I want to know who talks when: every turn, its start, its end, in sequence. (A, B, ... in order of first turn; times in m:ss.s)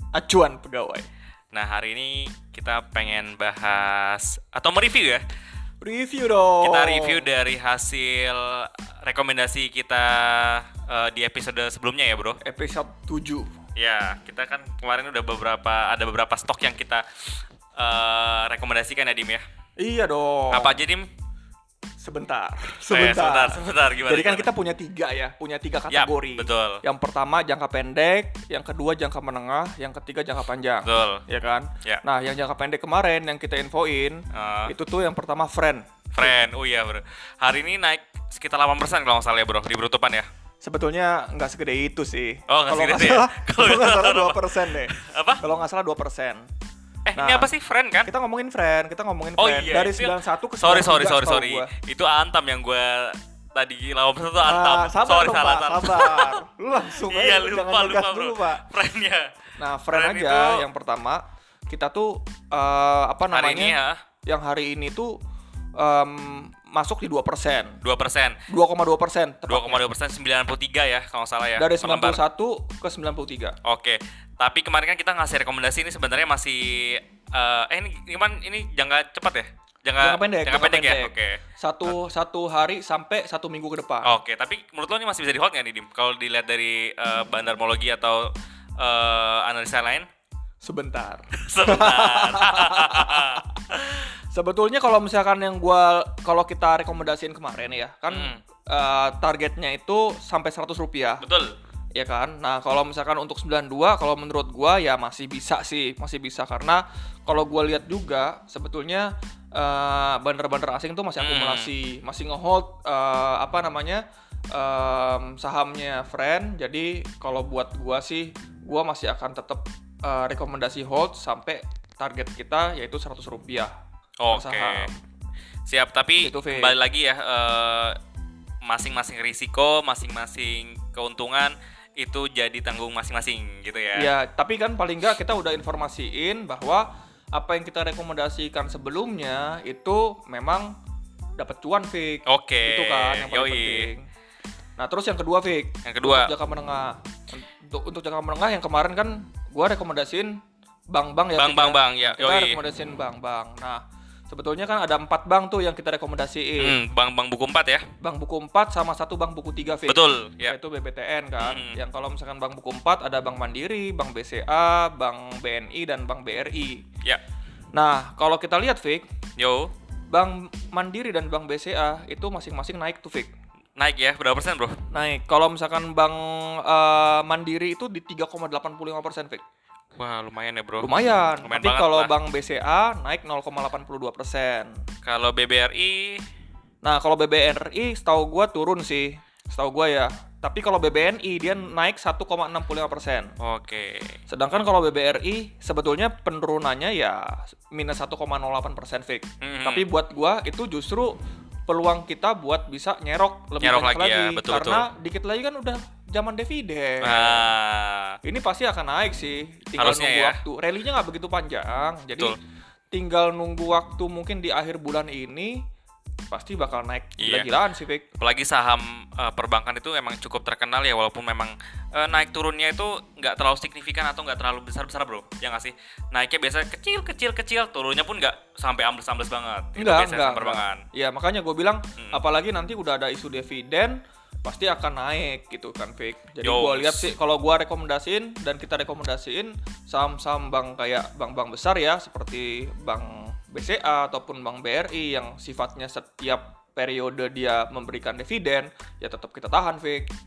0:00.1-0:01.1 A
0:01.5-0:05.2 B
0:05.8-0:07.3 A
0:06.6-0:12.4 B
0:12.4-0:13.5 A
0:13.8-0:17.0 B
0:17.7-0:19.4 B
0:19.8-0:20.8 A
0:20.5-0:21.1 B
0:22.0-0:36.4 A
0:22.9-0:24.5 B
0:25.9-0:26.8 B
0:30.8-0:31.2 B
0:34.3-0:34.7 B
0:36.1-0:40.3 B
0:40.6-0:46.5 A
0:42.5-0:45.4 B
0:47.1-0:48.1 B
0:47.2-0:47.5 A
0:48.0-0:51.7 A
0:49.4-0:59.3 B
0:54.4-0:58.6 A
0:59.6-1:05.2 A
0:59.9-1:00.6 B
1:03.3-1:04.0 B
1:05.8-1:07.8 A
1:07.8-1:08.4 B
1:08.5-1:09.8 A
1:09.5-1:12.2 B
1:11.6-1:13.6 A
1:13.6-1:21.4 B
1:20.0-1:24.2 A
1:24.0-1:30.1 B
1:30.6-1:33.6 A
1:31.3-1:34.0 B
1:34.3-1:41.2 A
1:38.1-1:38.4 B
1:41.2-1:41.6 B
1:41.9-2:03.7 A
1:51.2-1:51.7 B
2:04.2-2:04.9 B
2:04.3-2:05.0 A
2:05.7-2:08.0 B
2:06.2-2:06.7 A
2:08.6-2:14.1 B
2:13.9-2:20.7 A
2:21.4-2:24.1 A
2:22.2-2:23.9 B
2:24.8-2:30.4 A
2:25.8-2:26.3 B
2:30.9-2:36.8 A
2:31.4-2:32.6 B
2:36.6-2:37.8 B
2:38.0-2:46.8 A
2:39.9-2:40.6 B
2:41.4-2:41.8 B
2:47.7-2:49.0 A
2:49.4-2:49.7 B
2:50.1-2:53.3 A
2:53.8-2:54.8 B
2:54.9-2:59.4 A
3:00.0-3:02.1 B
3:00.8-3:04.8 A
3:05.0-3:06.2 B
3:06.8-3:13.3 A
3:13.4-3:14.2 B
3:14.3-3:21.2 A
3:19.4-3:19.8 B
3:21.7-3:27.4 A
3:23.6-3:24.9 B
3:27.0-3:28.2 B
3:28.2-3:32.4 A
3:29.8-3:30.4 B
3:32.9-3:35.6 A
3:36.3-3:38.0 A
3:37.2-3:37.5 B
3:38.2-3:50.8 B
3:49.8-4:10.1 A
3:56.4-3:57.1 B